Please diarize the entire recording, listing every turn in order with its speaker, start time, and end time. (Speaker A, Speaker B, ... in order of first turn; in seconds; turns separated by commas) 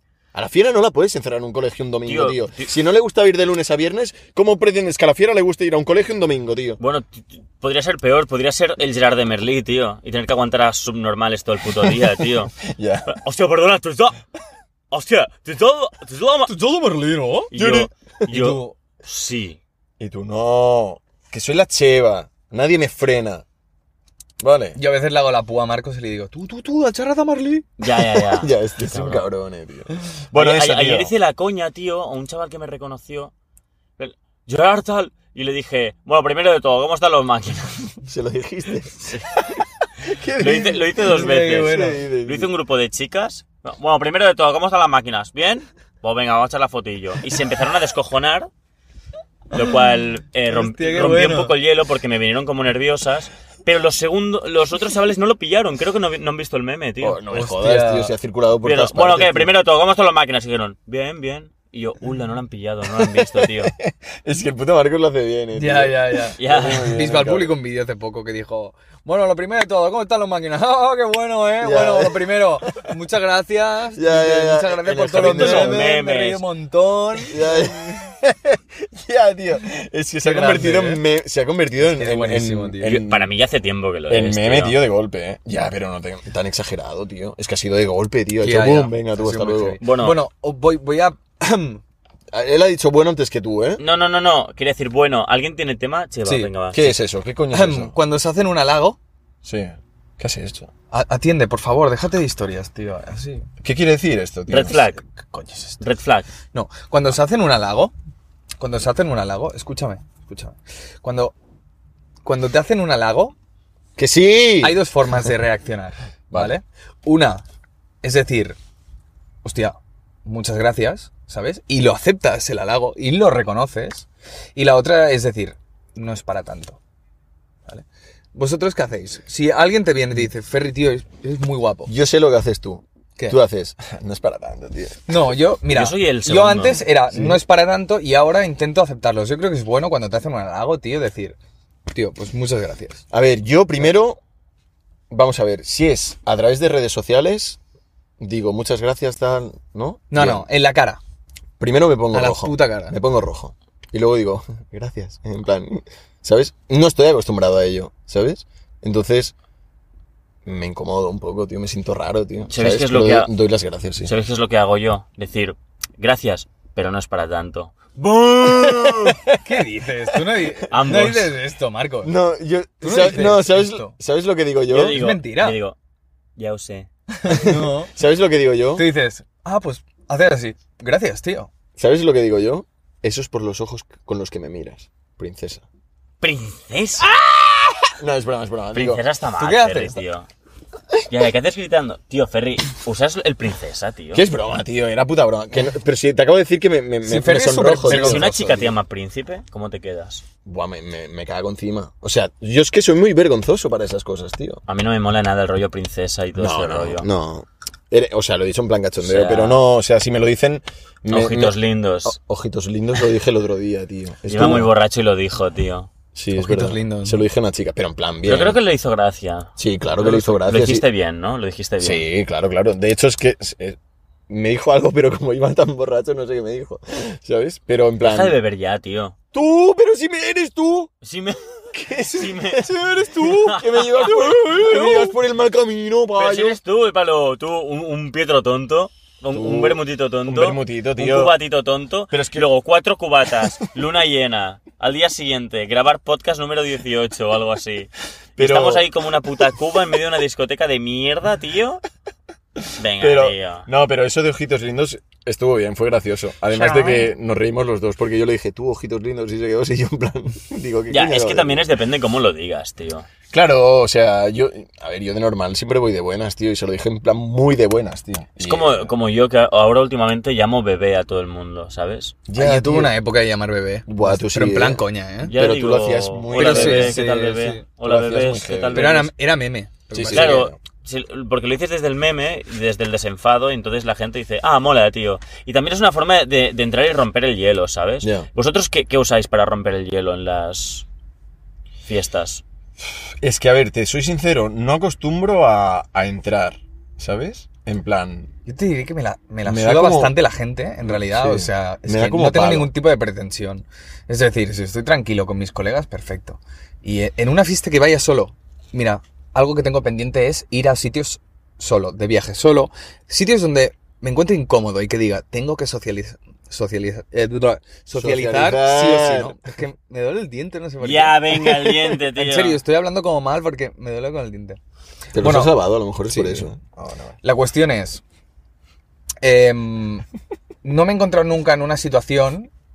Speaker A: 0.3-6.8, Speaker B: 2.0-2.7, Speaker B: 6.8-12.5, Speaker A: 12.6-13.2, Speaker B: 13.1-14.2, Speaker B: 14.9-16.5, Speaker C: 16.5-17.5, Speaker B: 17.5-19.6, Speaker A: 17.5-18.3, Speaker C: 18.3-18.8, Speaker A: 20.0-23.4, Speaker A: 24.4-24.8, Speaker C: 24.8-27.7, Speaker B: 27.8-29.2, Speaker A: 28.3-31.1, Speaker B: 30.3-33.3, Speaker B: 34.0-38.0, Speaker A: 38.0-42.5, Speaker B: 40.4-48.5, Speaker C: 41.0-42.0, Speaker B: 49.5-57.2, Speaker C: 50.5-51.5, Speaker A: 57.0-59.5, Speaker C: 57.3-58.1, Speaker B: 58.6-63.7, Speaker A: 62.9-67.5, Speaker C: 65.5-77.8, Speaker B: 66.4-66.9, Speaker A: 71.6-72.9, Speaker A: 73.9-75.8, Speaker B: 75.2-76.4, Speaker A: 77.3-83.3, Speaker C: 80.2-81.0, Speaker C: 81.8-82.9, Speaker B: 82.8-84.8, Speaker A: 84.1-89.8, Speaker C: 88.4-91.8, Speaker B: 89.8-90.2, Speaker A: 92.3-93.8, Speaker B: 93.8-97.0, Speaker C: 96.2-96.5, Speaker A: 96.7-97.9, Speaker C: 97.5-99.0, Speaker A: 99.4-100.7, Speaker C: 100.9-103.5, Speaker A: 103.6-104.9, Speaker B: 104.5-105.0, Speaker C: 105.3-105.8, Speaker B: 105.8-106.3, Speaker C: 106.5-107.9, Speaker C: 108.6-111.3, Speaker C: 112.2-113.3, Speaker A: 114.0-114.8, Speaker C: 114.6-117.4, Speaker A: 116.3-116.5, Speaker C: 118.0-118.6, Speaker C: 119.4-126.8, Speaker C: 127.7-131.9, Speaker A: 131.9-135.1, Speaker C: 135.1-141.3, Speaker B: 135.7-136.8, Speaker A: 137.1-137.4, Speaker C: 141.9-143.0, Speaker A: 143.1-144.2, Speaker A: 145.1-147.6, Speaker A: 148.2-150.4, Speaker C: 150.1-151.0, Speaker A: 151.6-159.3, Speaker C: 152.1-152.9, Speaker A: 160.4-164.1, Speaker B: 162.5-163.3, Speaker B: 164.0-169.1, Speaker A: 168.1-169.4, Speaker C: 169.3-172.1, Speaker B: 170.7-171.3, Speaker A: 172.0-175.0, Speaker C: 172.8-173.9, Speaker B: 174.7-175.8, Speaker C: 174.9-175.6, Speaker B: 176.4-176.9, Speaker C: 177.1-177.9, Speaker A: 177.3-178.8, Speaker C: 178.8-181.5, Speaker A: 181.8-185.6, Speaker B: 186.2-187.1, Speaker A: 188.0-189.0, Speaker B: 188.7-190.3, Speaker C: 189.4-190.0, Speaker B: 191.1-194.2, Speaker A: 194.1-198.7, Speaker C: 197.0-198.6, Speaker B: 197.8-200.2, Speaker A: 200.4-204.6, Speaker B: 204.7-207.1, Speaker A: 206.3-214.7, Speaker B: 209.0-209.7, Speaker B: 211.1-212.2, Speaker B: 214.3-215.9, Speaker A: 216.1-218.6, Speaker C: 216.3-217.2, Speaker B: 218.2-222.0, Speaker A: 219.6-220.8, Speaker A: 221.8-223.8, Speaker A: 224.3-228.4, Speaker B: 228.0-229.1, Speaker A: 229.3-230.9, Speaker B: 231.0-234.4, Speaker A: 231.7-236.6, Speaker C: 234.4-235.1, Speaker B: 236.2-251.8, Speaker A: 239.3-241.4, Speaker A: 242.1-242.4, Speaker A: 248.4-248.8, Speaker B: 252.8-253.7, Speaker A: 253.0-261.6, Speaker C: 256.5-257.1, Speaker B: 260.9-263.1, Speaker A: 263.3-268.9, Speaker B: 268.4-272.2, Speaker A: 272.3-272.9, Speaker C: 272.4-275.3, Speaker A: 273.9-277.0, Speaker B: 275.2-279.1, Speaker C: 276.3-277.6, Speaker A: 277.8-279.0, Speaker C: 278.7-280.5, Speaker A: 279.9-280.6, Speaker B: 280.1-290.8, Speaker A: 288.0-288.3, Speaker B: 291.8-292.4, Speaker A: 293.2-298.3, Speaker C: 298.4-324.6, Speaker A: 299.4-300.1, Speaker A: 300.8-302.7, Speaker A: 317.9-319.4, Speaker B: 320.8-322.6, Speaker A: 325.1-327.1, Speaker C: 325.2-325.6, Speaker C: 326.1-326.5, Speaker C: 327.2-328.0, Speaker C: 329.2-330.0, Speaker C: 330.6-332.5